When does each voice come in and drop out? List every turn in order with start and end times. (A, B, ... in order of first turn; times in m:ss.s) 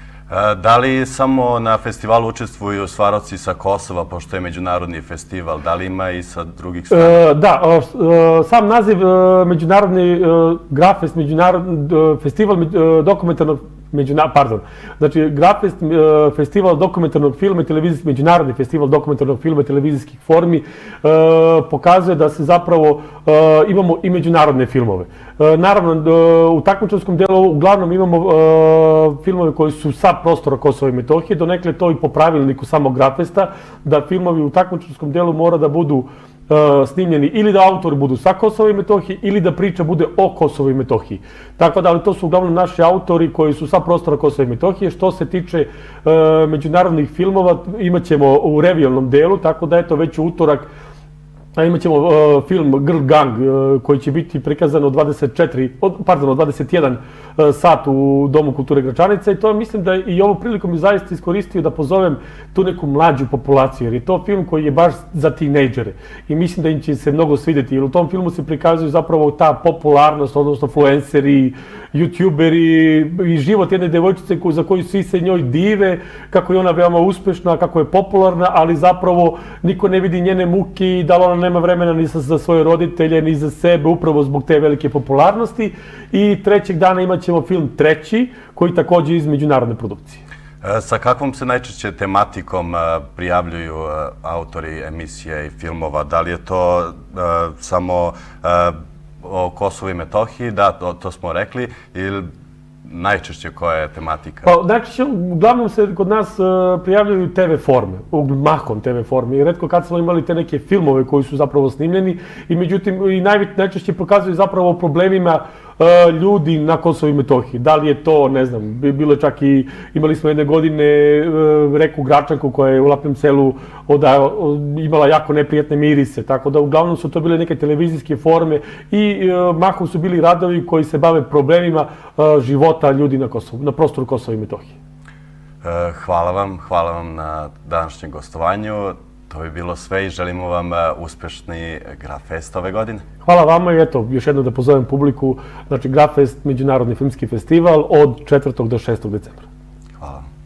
0:00.3-0:07.2 A
0:06.9-0:50.7 B
0:51.6-1:30.2 B
1:30.6-1:42.3 A
1:42.8-1:44.5 A
1:44.4-2:14.8 B
2:15.6-2:23.0 A
2:23.2-2:29.5 B
2:30.0-2:30.2 A